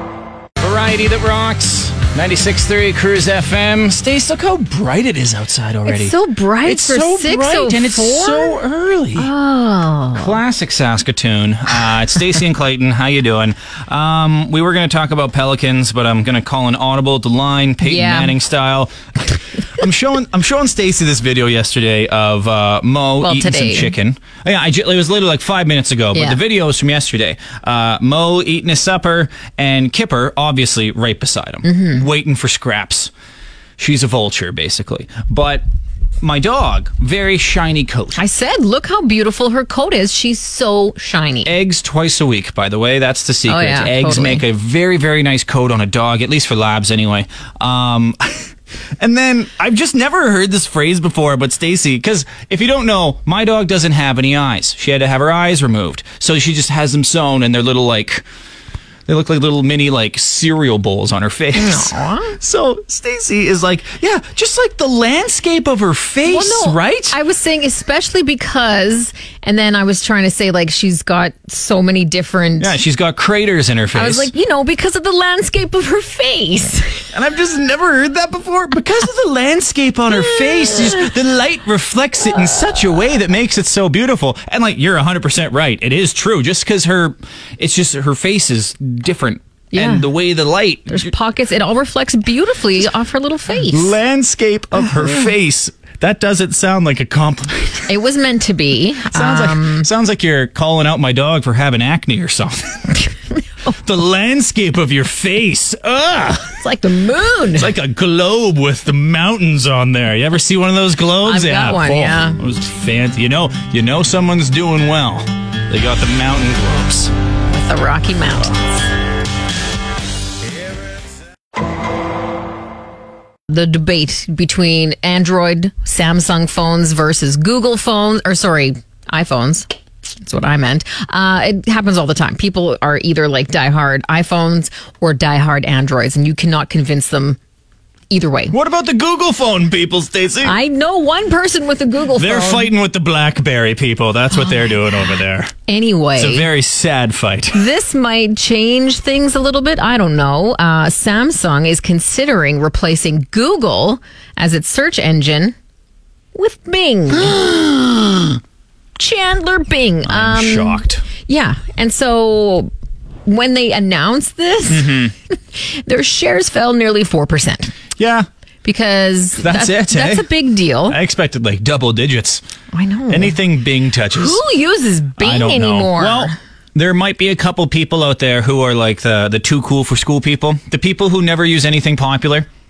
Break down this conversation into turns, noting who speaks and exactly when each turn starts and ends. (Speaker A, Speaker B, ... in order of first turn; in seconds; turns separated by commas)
Speaker A: 0.6-9.3, Speaker B: 5.8-8.6, Speaker B: 9.2-10.4, Speaker A: 10.1-18.9, Speaker B: 17.8-18.4, Speaker A: 19.7-33.1, Speaker B: 23.2-23.9, Speaker B: 26.1-26.4, Speaker B: 31.6-32.0, Speaker A: 33.8-35.6, Speaker A: 36.2-38.2, Speaker B: 38.1-41.5, Speaker A: 41.4-58.2, Speaker B: 43.5-44.4, Speaker A: 59.0-67.2, Speaker B: 61.5-62.4, Speaker B: 66.2-72.8, Speaker A: 72.6-74.3, Speaker B: 73.9-77.1, Speaker A: 77.1-91.1, Speaker B: 80.3-81.1, Speaker B: 89.7-90.1, Speaker B: 90.9-94.0, Speaker A: 93.7-97.9, Speaker B: 97.9-99.9, Speaker A: 99.1-102.9, Speaker A: 103.8-106.6, Speaker B: 106.5-107.7, Speaker A: 107.5-117.1, Speaker B: 111.2-112.4, Speaker B: 117.5-118.9, Speaker B: 123.5-129.7, Speaker B: 130.2-137.4, Speaker B: 138.1-138.6, Speaker A: 138.5-140.6, Speaker B: 140.4-142.7, Speaker A: 142.2-145.5, Speaker B: 144.4-144.9, Speaker B: 145.7-146.5, Speaker A: 146.2-147.6, Speaker B: 147.5-155.5, Speaker B: 156.3-157.4, Speaker A: 157.1-158.4, Speaker B: 159.0-162.7, Speaker A: 160.1-161.0, Speaker B: 163.2-167.7, Speaker A: 164.7-165.1, Speaker A: 168.0-168.3, Speaker B: 168.6-171.0, Speaker A: 169.4-170.3, Speaker A: 170.9-172.4, Speaker B: 172.7-173.4, Speaker A: 173.1-174.4, Speaker B: 174.1-176.4, Speaker A: 175.2-182.5